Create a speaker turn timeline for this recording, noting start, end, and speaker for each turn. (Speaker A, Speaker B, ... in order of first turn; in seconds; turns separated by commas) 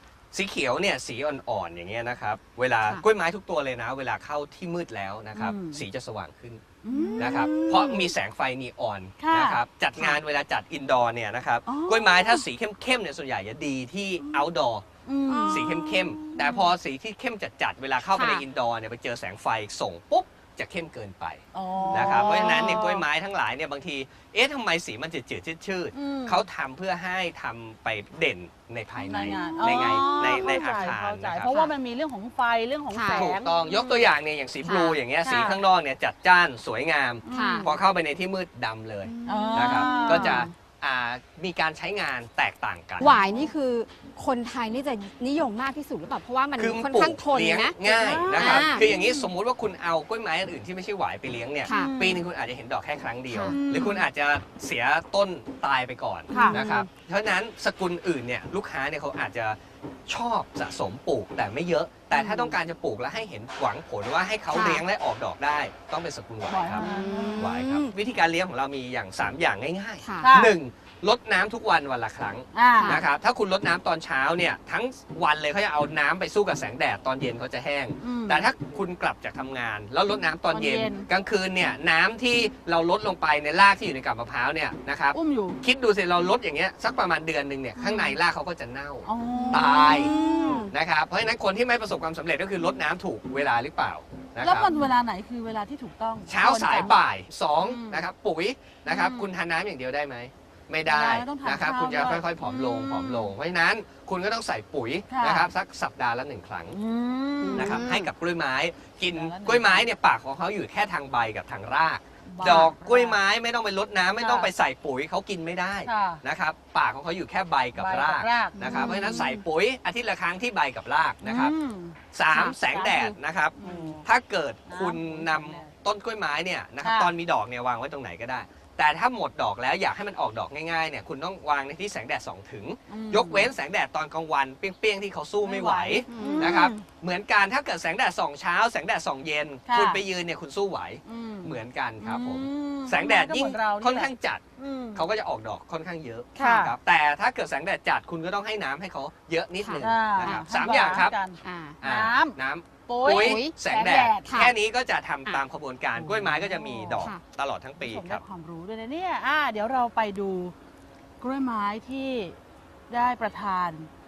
Speaker A: 0.3-6.6, Speaker B: 5.3-5.8, Speaker B: 6.8-8.0, Speaker C: 6.9-8.1, Speaker A: 7.2-14.8, Speaker B: 9.2-9.6, Speaker B: 11.7-12.4, Speaker B: 15.1-16.7, Speaker C: 15.3-15.7, Speaker A: 15.5-21.4, Speaker C: 18.1-18.4, Speaker B: 21.5-23.0, Speaker C: 21.8-22.8, Speaker A: 21.9-31.6, Speaker B: 25.9-26.4, Speaker B: 29.0-34.0, Speaker C: 29.3-30.4, Speaker C: 32.9-33.3, Speaker A: 33.1-43.1, Speaker C: 34.6-35.0, Speaker B: 35.2-35.6, Speaker B: 37.2-37.7, Speaker C: 37.3-37.7, Speaker C: 39.0-40.5, Speaker B: 39.3-40.5, Speaker C: 43.0-48.9, Speaker B: 43.0-43.5, Speaker A: 46.6-59.6, Speaker B: 47.8-49.3, Speaker C: 51.6-52.0, Speaker B: 51.7-52.2, Speaker C: 53.3-53.6, Speaker B: 53.5-54.1, Speaker B: 56.3-56.6, Speaker C: 56.3-56.9, Speaker A: 60.1-66.8, Speaker B: 62.1-62.5, Speaker C: 64.5-64.8, Speaker B: 66.5-67.4, Speaker C: 66.8-67.9, Speaker A: 67.4-94.7, Speaker C: 70.0-70.4, Speaker B: 70.2-70.5, Speaker B: 72.5-73.0, Speaker C: 72.8-73.0, Speaker B: 78.0-78.5, Speaker B: 80.5-81.0, Speaker B: 85.1-85.6, Speaker C: 87.8-88.2, Speaker B: 89.0-90.6, Speaker C: 89.3-90.7, Speaker B: 94.4-97.0, Speaker A: 96.3-106.8, Speaker B: 97.6-98.0, Speaker B: 98.9-99.3, Speaker B: 100.9-102.3, Speaker B: 105.1-105.5, Speaker B: 106.7-107.8, Speaker C: 107.4-108.1, Speaker A: 107.5-121.5, Speaker B: 109.1-109.9, Speaker B: 112.3-113.2, Speaker C: 112.4-112.7, Speaker B: 114.2-114.5, Speaker B: 115.8-116.2, Speaker B: 117.8-119.2, Speaker C: 118.5-119.4, Speaker B: 121.2-124.0, Speaker A: 122.1-144.4, Speaker C: 123.6-123.9, Speaker B: 124.7-125.7, Speaker B: 126.8-127.1, Speaker B: 132.9-133.5, Speaker B: 135.4-136.8, Speaker C: 136.1-136.6, Speaker B: 139.7-140.0, Speaker B: 141.1-145.0, Speaker A: 144.9-151.2, Speaker C: 146.4-146.6, Speaker B: 146.4-146.7, Speaker C: 149.6-150.4, Speaker B: 149.8-152.3, Speaker C: 151.4-151.8, Speaker A: 151.8-158.2, Speaker B: 152.9-154.3, Speaker C: 153.0-153.5, Speaker C: 154.2-154.5, Speaker B: 155.9-157.0, Speaker B: 157.8-160.5, Speaker B: 161.2-162.4, Speaker B: 162.9-163.9